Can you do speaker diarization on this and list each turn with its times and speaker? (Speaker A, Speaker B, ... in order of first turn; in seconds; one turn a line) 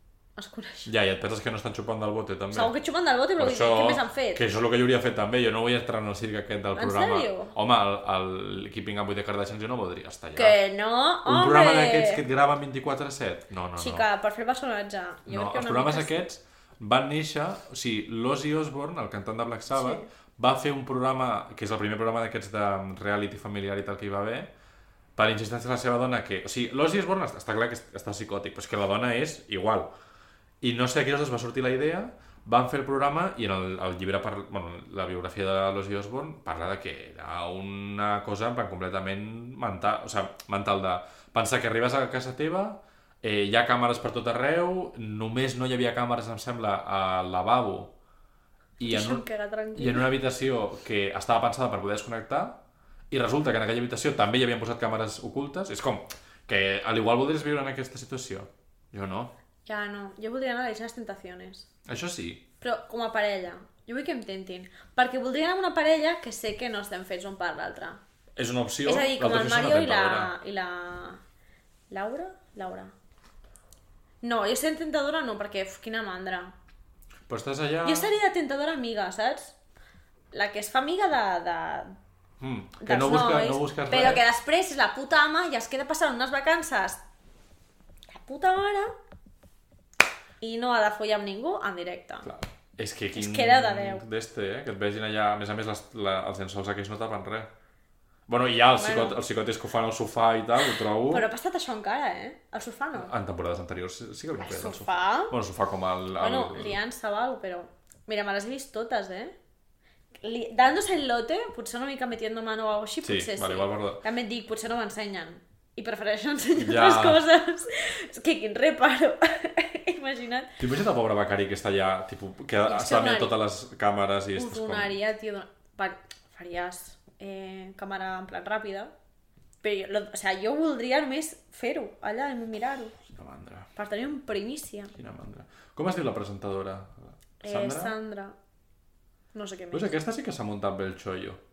Speaker A: 0.3-0.9
Speaker B: 0.8-2.7
Speaker A: 2.5-4.4
Speaker B: 3.4-10.6
Speaker A: 6.7-7.5
Speaker A: 10.3-12.2
Speaker B: 11.2-14.1
Speaker A: 13.8-16.3
Speaker B: 15.3-24.5
Speaker A: 19.7-20.1
Speaker B: 25.1-29.9
Speaker B: 30.6-47.9
Speaker B: 48.8-52.6
Speaker A: 48.8-50.1
Speaker B: 53.1-59.3
Speaker A: 59.6-61.7
Speaker B: 61.9-62.4
Speaker A: 62.6-68.0
Speaker B: 68.3-70.3
Speaker A: 68.8-71.2
Speaker A: 71.9-72.9
Speaker A: 74.2-76.5
Speaker B: 77.3-78.1
Speaker A: 77.8-79.5
Speaker A: 80.3-81.9
Speaker B: 82.4-84.2
Speaker A: 82.8-87.0
Speaker A: 88.1-88.9
Speaker A: 90.4-92.3
Speaker B: 92.2-97.5
Speaker A: 93.1-94.0
Speaker B: 98.3-101.3
Speaker A: 98.8-99.2
Speaker A: 101.0-103.1
Speaker B: 103.0-106.8
Speaker A: 104.4-105.3
Speaker A: 106.2-109.3
Speaker A: 110.2-120.5
Speaker B: 113.0-114.0
Speaker B: 116.6-117.2
Speaker B: 120.6-124.9
Speaker A: 122.7-123.3
Speaker A: 124.3-128.9
Speaker A: 129.6-133.0
Speaker B: 133.1-133.7
Speaker A: 133.7-134.9
Speaker B: 134.9-137.9
Speaker A: 137.4-138.3
Speaker A: 139.3-139.9
Speaker B: 139.7-141.4